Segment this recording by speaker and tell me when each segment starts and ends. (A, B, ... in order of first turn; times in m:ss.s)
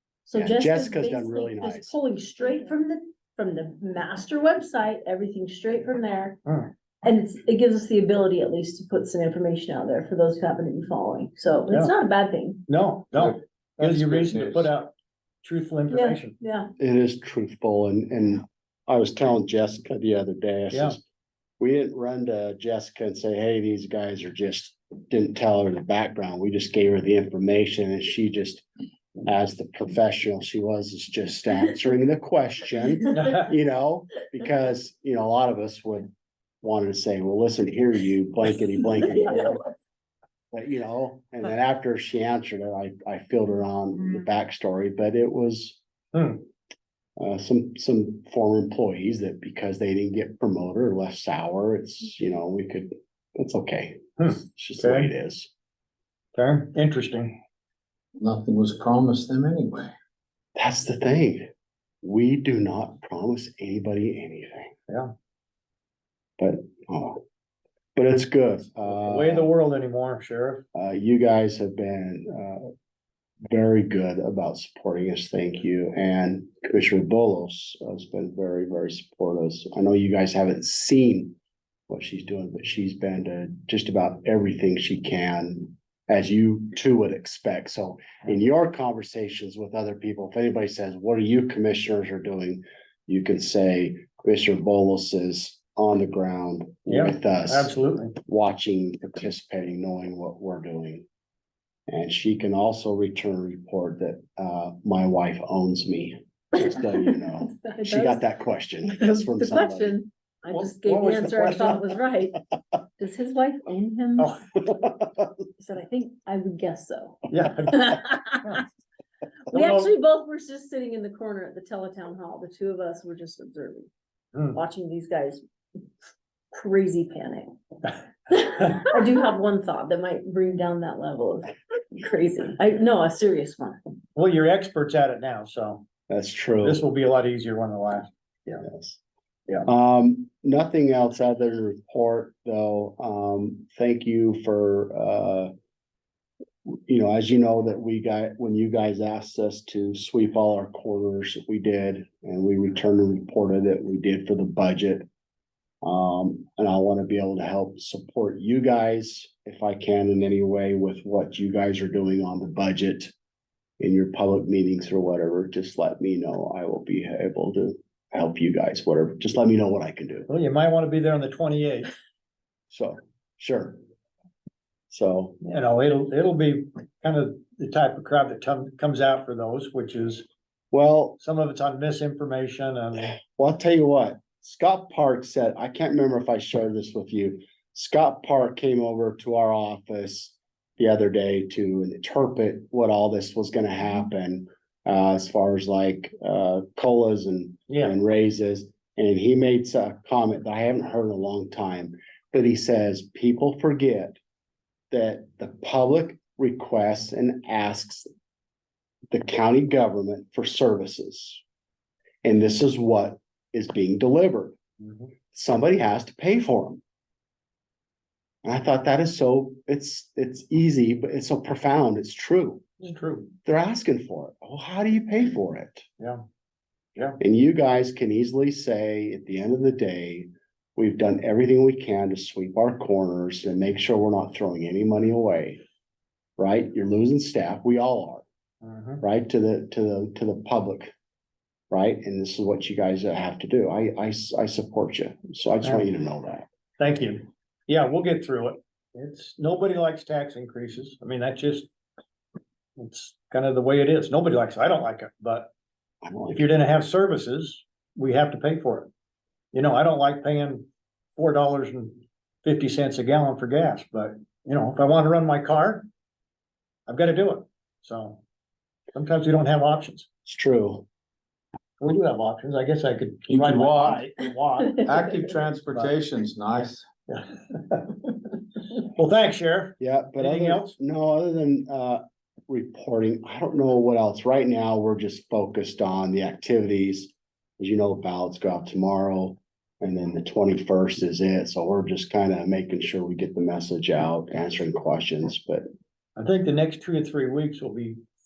0:00.2-0:06.4 A
0:00.3-0:01.9 B
0:06.4-0:06.7 C
0:07.0-0:12.6 A
0:12.7-0:14.9 C
0:13.1-0:14.7 D
0:15.4-0:16.3 C
0:15.9-0:16.7 A
0:16.8-0:21.0 B
0:20.7-0:21.0 C
0:21.6-0:28.6 B
0:29.2-0:36.1 B
0:33.1-0:33.5 C
0:36.6-0:39.6 B
0:40.5-0:45.8 B
0:46.1-0:46.4 C
0:47.2-0:55.5 B
0:54.2-0:55.1 C
0:56.3-0:57.4 C
0:58.2-0:59.9 D
1:00.5-1:01.4 B
1:02.0-1:04.7 B
1:06.4-1:07.2 B
1:08.0-1:09.5 B
1:08.9-1:10.6 C
1:10.7-1:12.7 B
1:13.5-1:21.4 B
1:21.9-1:41.0 B
1:36.9-1:38.1 C
1:41.9-1:50.0 B
1:47.6-1:48.2 A
1:48.9-1:52.4 A
1:50.5-1:51.9 C
1:53.0-1:54.4 A
1:54.8-1:55.3 B
1:55.6-1:58.6 A
1:57.3-1:58.6 C
1:59.5-2:03.9 A
1:59.5-1:59.9 C
2:04.5-2:05.4 A
2:06.5-2:07.5 A
2:08.3-2:13.8 A
2:14.1-2:15.9 C
2:16.1-2:16.8 B
2:16.6-2:18.6 C
2:18.6-2:19.0 B
2:19.6-2:25.5 B
2:26.6-2:35.0 B
2:35.8-2:43.1 B
2:43.8-2:50.3 B
2:50.3-2:51.9 C
2:52.7-2:53.8 B
2:54.9-2:55.4 B
2:55.4-3:00.2 C
3:00.7-3:01.2 B
3:01.2-3:03.2 C
3:03.1-3:24.2 B
3:17.7-3:18.0 C
3:24.9-3:28.1 B
3:29.1-3:31.4 B
3:32.2-3:34.6 B
3:35.3-3:36.8 B
3:38.4-3:42.7 B
3:42.8-3:43.3 C
3:43.4-3:45.8 B
3:47.2-3:55.6 B
3:56.4-3:58.2 B
3:58.6-3:59.0 C
3:59.0-4:00.9 B
4:01.7-4:06.4 B
4:06.8-4:11.7 C
4:12.8-4:15.5 C
4:16.0-4:16.4 B
4:16.3-4:18.9 C
4:19.5-4:25.9 C
4:26.9-4:28.2 C
4:28.9-4:30.1 C
4:30.2-4:30.8 B
4:31.8-4:35.9 C
4:33.3-4:34.0 D
4:34.8-4:36.9 D
4:36.6-4:40.7 C
4:39.8-4:55.6 B
4:56.2-4:58.0 C